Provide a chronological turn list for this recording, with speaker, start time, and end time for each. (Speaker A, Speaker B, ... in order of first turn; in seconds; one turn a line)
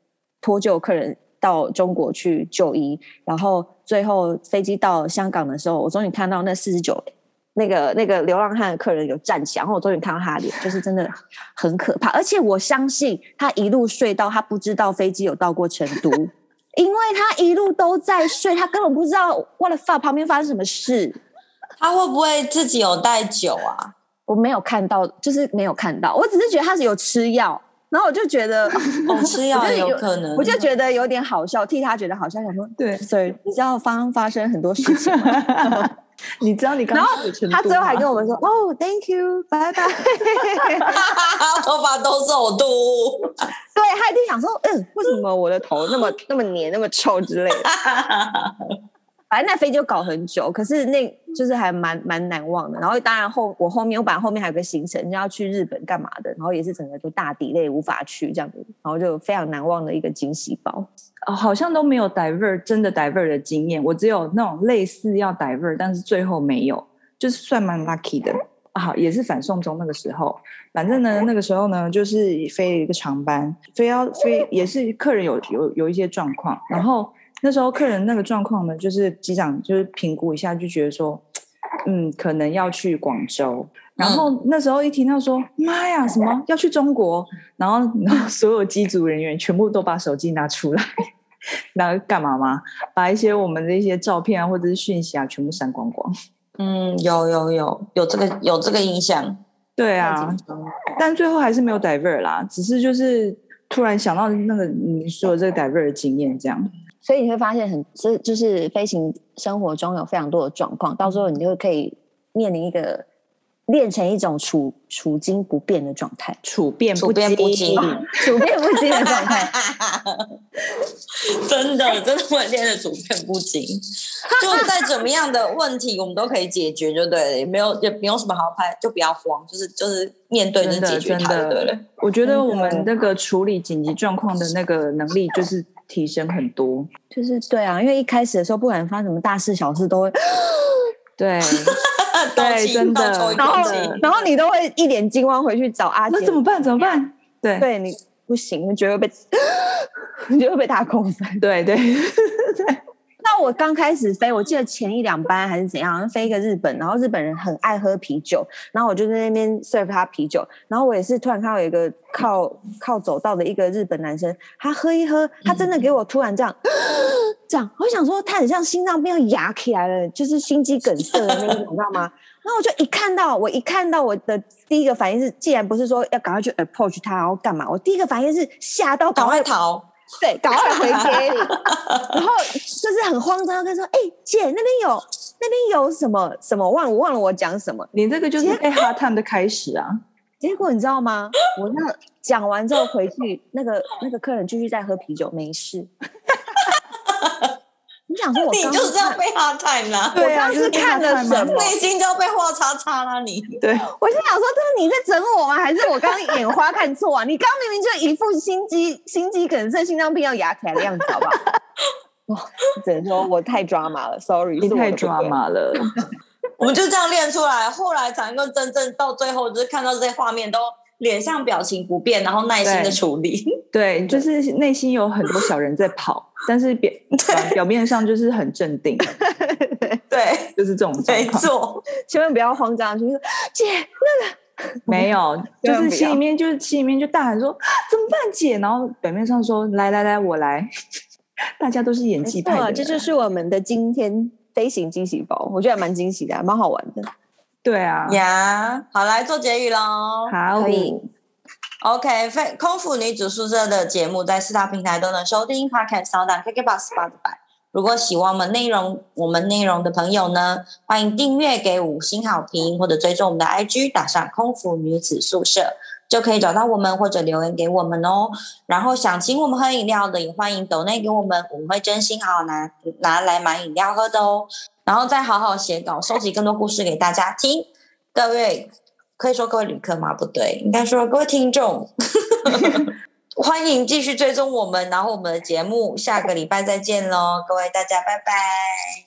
Speaker A: 0.4-21.2
Speaker B: 21.8-23.9
Speaker A: 24.3-35.9
Speaker C: 29.0-29.2
Speaker B: 29.1-30.6
Speaker C: 32.8-33.0
Speaker C: 35.0-38.1
Speaker A: 36.9-41.1
Speaker B: 40.9-43.4
Speaker A: 43.8-47.7
Speaker B: 47.6-48.8
Speaker A: 49.3-60.9
Speaker C: 61.3-81.2
Speaker C: 81.9-90.9
Speaker B: 84.0-84.3
Speaker C: 91.8-96.1
Speaker B: 96.6-99.4
Speaker C: 99.8-100.4
Speaker A: 100.0-100.7
Speaker C: 101.0-106.7
Speaker A: 107.0-113.0
Speaker A: 113.7-116.4
Speaker C: 116.4-118.1
Speaker B: 117.0-118.0
Speaker A: 117.8-119.5
Speaker B: 118.9-120.2
Speaker B: 121.2-131.8
Speaker C: 130.6-136.9
Speaker A: 132.2-132.9
Speaker A: 137.1-140.9
Speaker C: 141.2-141.8
Speaker B: 141.7-144.1
Speaker C: 142.4-144.0
Speaker A: 143.4-147.0
Speaker C: 146.1-147.7
Speaker A: 147.6-151.4
Speaker C: 151.4-152.8
Speaker A: 153.2-179.5
Speaker B: 179.2-179.9
Speaker A: 180.2-188.6
Speaker B: 180.6-182.1
Speaker C: 187.9-190.0
Speaker A: 190.4-195.9
Speaker B: 197.1-197.5
Speaker A: 198.1-199.2
Speaker B: 198.5-200.3
Speaker C: 200.1-201.8
Speaker A: 200.2-201.7
Speaker B: 201.4-203.6
Speaker C: 203.6-203.9
Speaker A: 203.9-211.4
Speaker A: 212.3-215.3
Speaker C: 214.6-215.9
Speaker B: 216.6-223.4
Speaker C: 222.6-223.0
Speaker C: 223.7-229.1
Speaker A: 229.3-229.9
Speaker B: 230.1-231.8
Speaker C: 230.6-231.5
Speaker A: 232.0-235.1
Speaker C: 234.9-240.7
Speaker A: 235.6-236.2
Speaker C: 241.6-243.1
Speaker A: 242.2-247.1
Speaker C: 247.6-248.2
Speaker B: 248.1-250.3
Speaker C: 250.3-251.1
Speaker A: 250.6-251.0
Speaker B: 251.8-289.0
Speaker C: 282.5-282.9